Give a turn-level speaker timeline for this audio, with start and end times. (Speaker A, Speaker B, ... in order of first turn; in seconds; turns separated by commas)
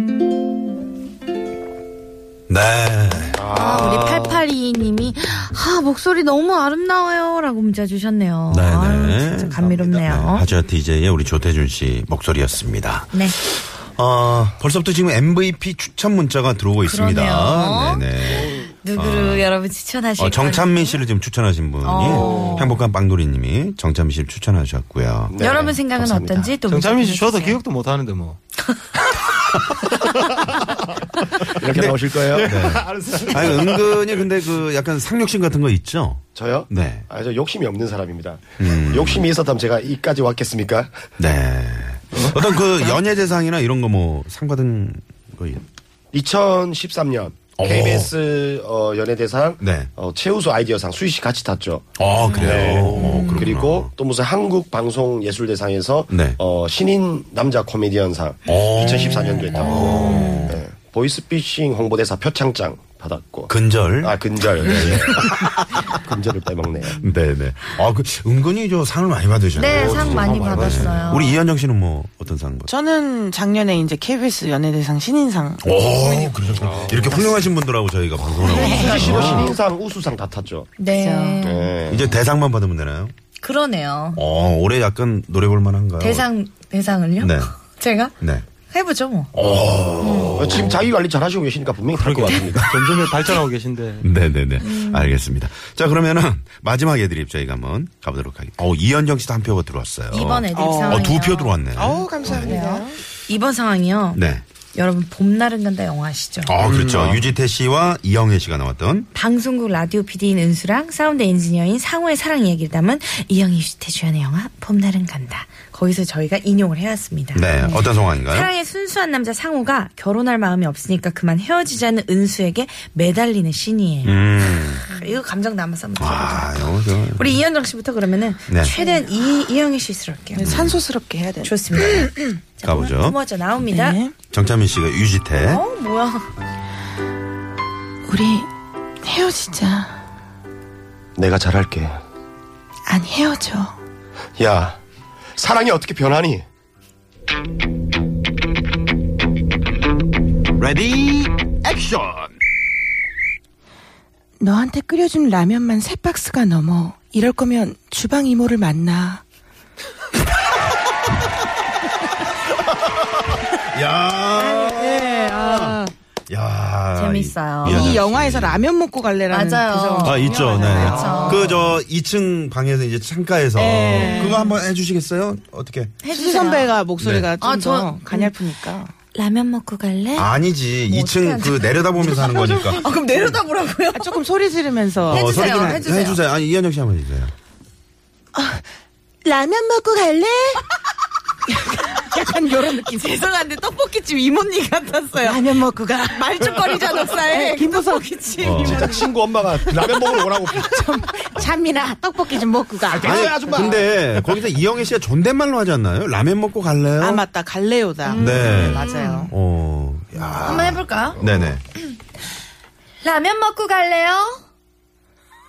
Speaker A: 2.5-3.4, Speaker B: 3.3-4.4, Speaker C: 3.5-10.4, Speaker A: 8.5-19.5, Speaker C: 16.8-18.0, Speaker C: 18.8-21.0, Speaker A: 20.2-25.4, Speaker C: 21.8-22.7, Speaker D: 22.1-22.6, Speaker B: 25.3-26.5, Speaker C: 25.4-27.6, Speaker D: 26.7-28.4, Speaker D: 30.0-30.4, Speaker B: 31.4-33.2, Speaker A: 31.6-37.0, Speaker D: 32.3-34.0, Speaker B: 36.3-40.9, Speaker A: 38.6-39.3, Speaker A: 41.2-45.6, Speaker B: 46.1-65.3, Speaker A: 47.6-48.1, Speaker A: 49.6-49.9, Speaker A: 52.0-53.9, Speaker C: 52.6-53.4, Speaker A: 56.1-56.4, Speaker A: 58.5-60.6, Speaker C: 59.8-60.5, Speaker A: 63.5-65.8, Speaker B: 65.9-67.0, Speaker A: 67.0-72.7, Speaker C: 69.5-71.3, Speaker D: 69.7-71.3, Speaker E: 72.7-75.6, Speaker A: 75.6-79.5, Speaker D: 76.2-77.2, Speaker E: 78.5-79.0, Speaker C: 78.6-79.6, Speaker B: 78.7-80.8, Speaker C: 80.8-81.7, Speaker E: 80.9-81.5, Speaker B: 81.4-82.1, Speaker A: 81.9-83.1, Speaker C: 83.4-84.2, Speaker A: 84.1-86.3, Speaker C: 86.0-88.1, Speaker A: 87.2-87.5, Speaker A: 88.2-88.5, Speaker C: 88.7-89.3, Speaker A: 89.3-90.8, Speaker C: 90.0-90.4, Speaker B: 90.3-92.8, Speaker D: 91.9-94.1, Speaker A: 94.0-102.6, Speaker C: 94.6-95.2, Speaker C: 100.1-101.6, Speaker E: 100.5-101.1, Speaker E: 101.7-103.0, Speaker C: 102.2-104.2, Speaker A: 104.1-104.4, Speaker C: 104.7-106.5, Speaker A: 106.4-109.1, Speaker D: 106.6-107.1, Speaker C: 109.1-130.5, Speaker A: 117.3-118.5, Speaker A: 124.0-124.8, Speaker A: 126.0-127.4, Speaker A: 128.5-128.7, Speaker E: 128.8-129.0, Speaker E: 130.3-132.4, Speaker A: 130.4-130.8, Speaker C: 131.4-134.0, Speaker A: 132.6-133.2, Speaker E: 133.7-134.1, Speaker A: 134.3-135.6, Speaker C: 135.4-136.2, Speaker E: 138.1-138.5, Speaker E: 139.0-140.0, Speaker B: 141.2-142.0, Speaker E: 142.9-143.8, Speaker B: 144.4-144.8, Speaker B: 145.4-146.4, Speaker E: 154.4-159.2, Speaker A: 162.7-168.7, Speaker E: 164.4-165.9, Speaker C: 166.9-167.9, Speaker E: 167.6-171.6, Speaker C: 169.3-171.6, Speaker A: 170.0-176.0, Speaker E: 173.6-174.5, Speaker C: 174.0-174.5, Speaker C: 176.0-176.8, Speaker E: 176.1-178.9, Speaker A: 177.0-177.3, Speaker C: 177.4-178.3, Speaker C: 179.1-180.3, Speaker A: 180.2-182.8, Speaker C: 180.9-184.2, Speaker E: 182.1-182.7, Speaker E: 183.9-185.8, Speaker A: 185.1-187.3, Speaker C: 185.1-186.2, Speaker E: 188.3-188.6, Speaker E: 189.2-190.6, Speaker E: 191.5-193.1, Speaker C: 192.7-199.0, Speaker E: 195.2-199.1, Speaker A: 198.4-199.0, Speaker B: 198.6-200.8, Speaker E: 199.7-203.6, Speaker B: 202.9-204.0, Speaker A: 203.0-207.2, Speaker E: 207.0-209.3, Speaker C: 208.1-209.3, Speaker A: 208.1-211.6, Speaker C: 210.4-211.2, Speaker C: 213.0-214.4